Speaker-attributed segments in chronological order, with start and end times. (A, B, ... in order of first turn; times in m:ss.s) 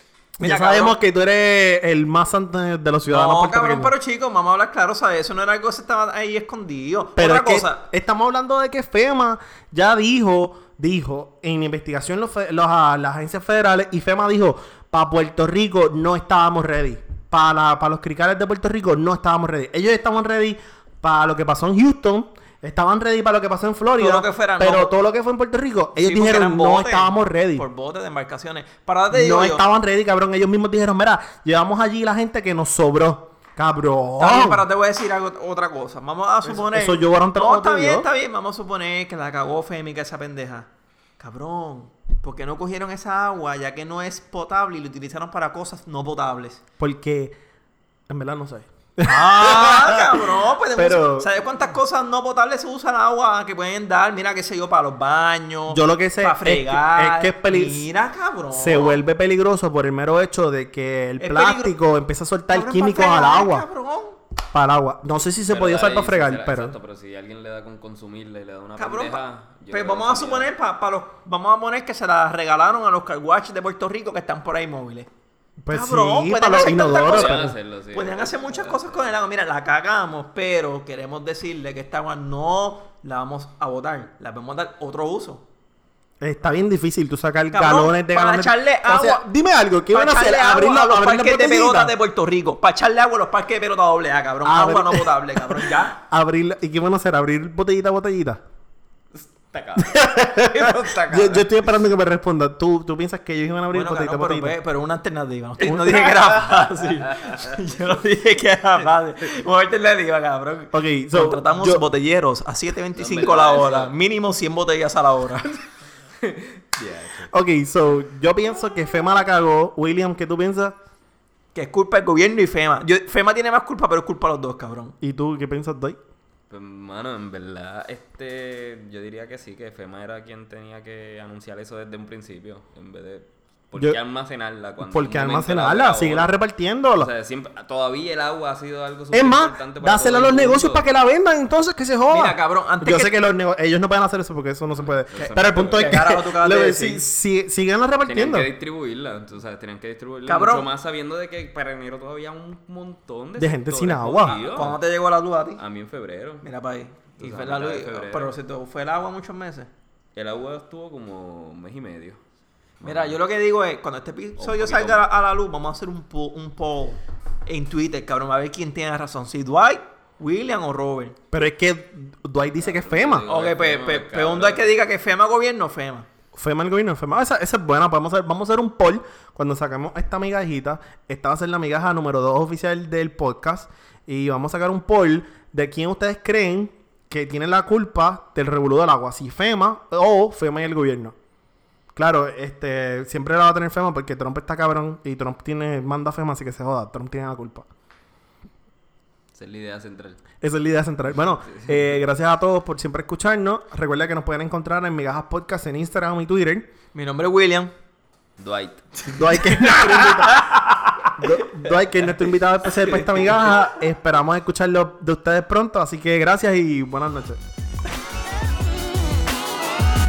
0:00.4-0:03.9 A
0:00.4-0:01.0 B
0:03.0-0:07.8 B
0:07.2-0:27.6 A
0:24.0-0:24.9 B
0:26.0-0:29.6 B
0:29.1-0:34.6 A
0:34.2-0:46.6 B
0:36.5-0:38.1 A
0:46.8-0:47.3 A
0:48.1-0:50.2 A
0:49.0-0:59.0 B
0:50.8-0:51.3 A
0:55.7-0:57.8 A
0:58.5-1:03.6 A
1:01.2-1:01.7 B
1:02.5-1:04.2 B
1:04.5-1:06.8 A
1:05.5-1:10.5 C
1:08.8-1:15.1 B
1:15.6-1:25.4 B
1:15.7-1:17.6 A
1:17.1-1:19.1 C
1:26.2-1:31.9 A
1:27.5-1:29.2 B
1:29.9-1:36.0 B
1:34.4-1:38.4 A
1:39.1-1:41.8 C
1:39.8-1:44.6 A
1:43.7-1:55.6 B
1:45.6-1:46.3 A
1:47.1-1:47.4 C
1:50.7-1:51.8 A
1:52.9-1:53.9 C
1:56.2-1:57.3 C
1:57.3-2:00.8 A
2:01.5-2:04.9 B
2:05.0-2:06.0 A
2:06.5-2:16.3 C
2:14.8-2:17.1 A
2:17.0-2:20.8 C
2:19.1-2:28.5 A
2:22.1-2:23.1 B
2:24.8-2:26.0 C
2:25.2-2:27.1 B
2:28.0-2:34.8 C
2:30.2-2:30.7 B
2:33.4-2:34.4 A
2:34.4-2:35.6 B
2:35.6-2:36.4 C
2:36.4-2:39.7 B
2:37.2-2:38.3 C
2:40.1-2:42.2 C
2:42.8-2:43.2 C
2:42.8-2:51.2 B
2:44.4-2:45.1 C
2:51.3-2:53.2 A
2:52.6-2:54.7 C
2:53.3-2:56.1 B
2:56.3-3:11.1 A
3:11.9-3:17.7 A
3:19.3-3:20.2 C
3:20.4-3:26.7 A
3:21.5-3:21.8 C
3:26.9-3:27.7 B
3:28.4-3:29.0 C
3:29.0-3:33.6 B
3:29.0-3:30.5 A
3:31.2-3:37.4 A